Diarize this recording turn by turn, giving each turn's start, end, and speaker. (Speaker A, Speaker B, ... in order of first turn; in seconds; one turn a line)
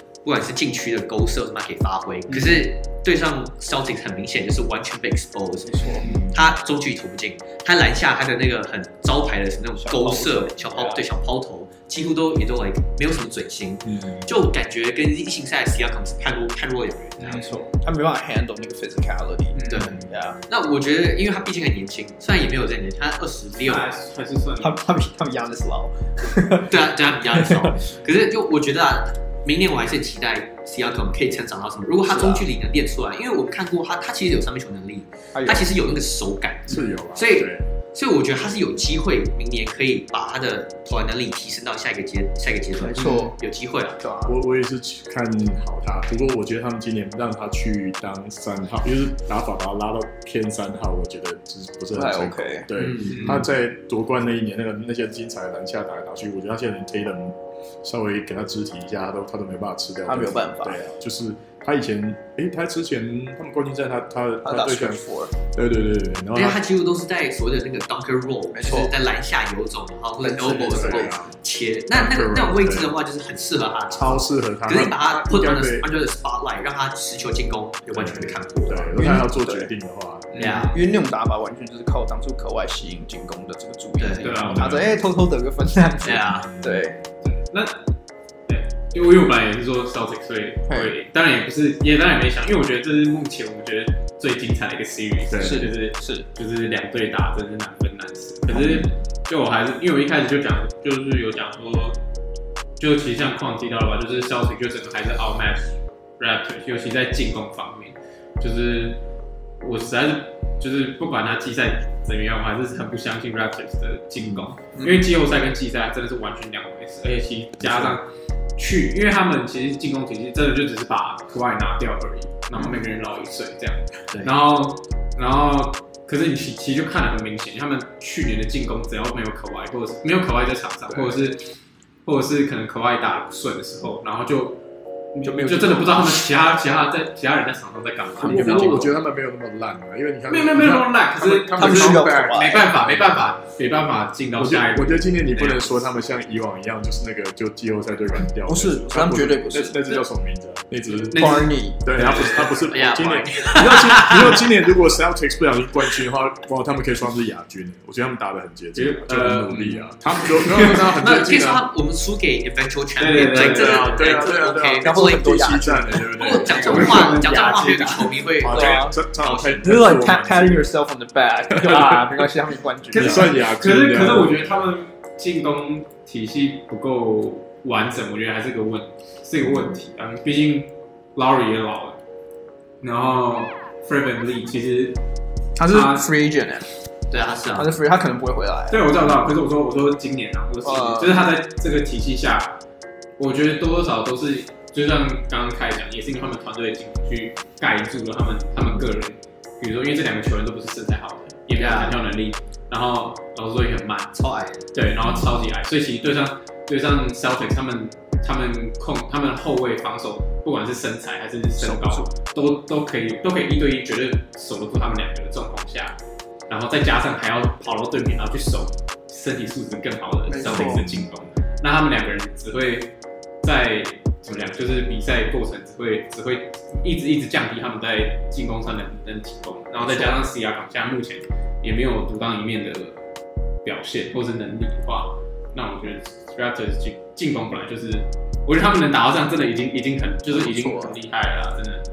Speaker A: 0.2-17.6
Speaker B: 2.3-2.6
Speaker C: 5.7-6.1
Speaker D: 6.0-6.3
Speaker C: 9.8-11.0
Speaker D: 13.8-14.3
Speaker C: 17.2-20.4
Speaker B: 17.2-17.6
Speaker B: 19.5-20.0
Speaker A: 19.7-23.9
Speaker B: 23.6-24.8
Speaker C: 24.6-26.7
Speaker A: 26.6-44.0
Speaker C: 27.3-27.7
Speaker C: 32.0-32.4
Speaker C: 35.3-35.7
Speaker D: 36.7-37.6
Speaker C: 42.8-43.4
Speaker C: 44.0-44.3
Speaker D: 44.2-66.6
Speaker C: 51.9-52.7
Speaker A: 52.8-53.4
Speaker B: 53.0-53.5
Speaker C: 60.0-60.8
Speaker C: 64.4-65.3
Speaker A: 66.3-78.9
Speaker C: 68.5-68.9
Speaker C: 70.2-71.2
Speaker D: 70.5-71.4
Speaker D: 71.9-73.0
Speaker D: 73.9-75.9
Speaker D: 77.9-80.3
Speaker C: 79.0-79.7
Speaker B: 80.3-80.7
Speaker A: 80.4-80.8
Speaker C: 80.7-87.0
Speaker A: 84.0-84.3
Speaker B: 84.2-84.7
Speaker D: 84.3-85.0
Speaker A: 86.0-86.5
Speaker D: 86.3-86.9
Speaker B: 87.2-87.8
Speaker B: 88.5-102.0
Speaker C: 90.7-90.9
Speaker D: 95.3-95.7
Speaker C: 95.4-96.2
Speaker D: 98.5-98.9
Speaker B: 102.8-109.0
Speaker B: 109.6-131.4
Speaker D: 114.2-114.5
Speaker C: 114.7-115.0
Speaker D: 117.6-118.0
Speaker C: 130.9-131.2
Speaker B: 132.1-134.6
Speaker B: 135.1-138.9
Speaker C: 135.2-136.1
Speaker C: 138.2-138.9
Speaker D: 138.2-143.2
Speaker B: 140.3-145.8
Speaker C: 141.5-142.6
Speaker D: 144.3-161.7
Speaker C: 148.5-149.8
Speaker B: 150.9-152.7
Speaker C: 151.1-151.8
Speaker A: 152.2-154.5
Speaker B: 158.7-160.9
Speaker A: 161.0-169.7
Speaker B: 163.0-164.1
Speaker D: 163.3-167.2
Speaker C: 164.8-166.2
Speaker B: 166.3-168.2
Speaker C: 166.7-167.2
Speaker D: 168.4-170.7
Speaker C: 168.4-169.0
Speaker C: 169.6-173.3
Speaker D: 171.5-172.2
Speaker D: 172.9-174.7
Speaker B: 172.9-182.0
Speaker B: 182.8-185.0
Speaker C: 185.6-186.7
Speaker B: 185.7-186.1
Speaker A: 187.1-187.7
Speaker C: 187.5-188.8
Speaker B: 188.7-192.6
Speaker C: 190.6-191.2
Speaker B: 193.2-204.1
Speaker A: 201.6-201.9
Speaker A: 204.1-204.6
Speaker B: 204.7-216.0
Speaker D: 205.0-205.4
Speaker C: 211.6-212.1
Speaker B: 216.5-222.9
Speaker C: 220.3-220.8
Speaker D: 220.4-221.1
Speaker B: 223.4-233.0
Speaker C: 229.8-230.2
Speaker B: 233.6-241.8
Speaker C: 240.3-240.9